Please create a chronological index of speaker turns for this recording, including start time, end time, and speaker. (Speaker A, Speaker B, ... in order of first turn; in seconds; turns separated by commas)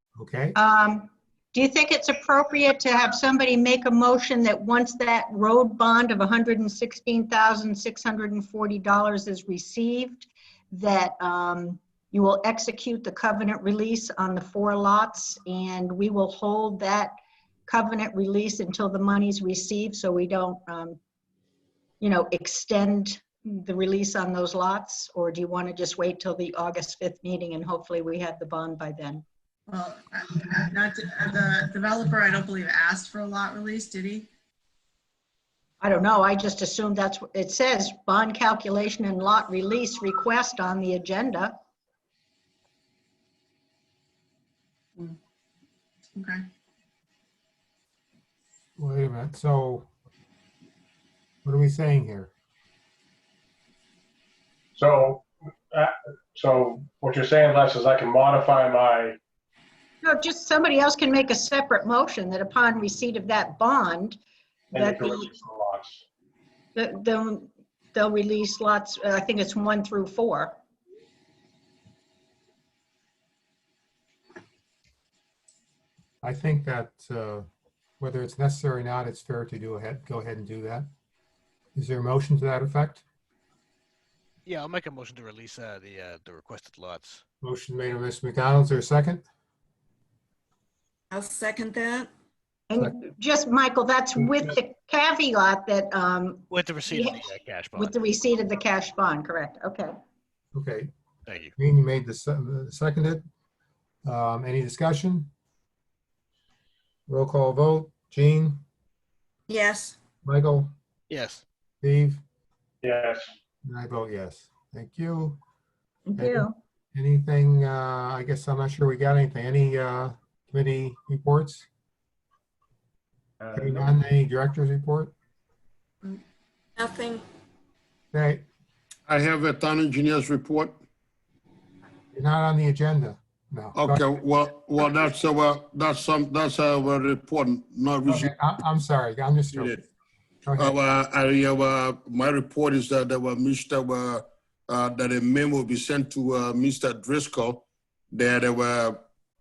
Speaker A: 0.2-0.6, Speaker B: 0.6-17.1, Speaker B: 17.7-21.0, Speaker B: 22.0-29.2, Speaker C: 29.7-34.3, Speaker B: 35.8-41.5, Speaker C: 46.1-46.5, Speaker A: 48.8-49.9, Speaker A: 51.4-52.3, Speaker D: 54.8-59.2, Speaker B: 60.0-64.2, Speaker D: 64.7-66.0, Speaker B: 64.8-65.3, Speaker B: 66.8-70.6, Speaker A: 76.2-77.5, Speaker A: 78.0-80.9, Speaker A: 81.8-83.0, Speaker E: 84.5-87.2, Speaker A: 87.4-89.2, Speaker F: 91.1-92.1, Speaker B: 92.7-97.2, Speaker E: 96.5-98.0, Speaker B: 97.8-100.0, Speaker A: 100.5-100.9, Speaker E: 101.3-101.5, Speaker A: 101.6-103.2, Speaker A: 104.0-105.3, Speaker A: 107.1-108.6, Speaker F: 109.5-110.0, Speaker A: 110.2-110.7, Speaker E: 111.1-111.4, Speaker A: 111.8-112.2, Speaker D: 112.8-113.3, Speaker A: 113.7-115.4, Speaker B: 116.1-116.5, Speaker A: 116.2-121.7, Speaker A: 123.5-125.1, Speaker F: 126.8-127.2, Speaker A: 128.1-128.4, Speaker G: 129.1-130.8, Speaker A: 132.1-134.0, Speaker G: 133.8-138.3, Speaker A: 138.1-139.8, Speaker G: 139.5-139.8, Speaker A: 140.4-140.8, Speaker G: 140.6-149.0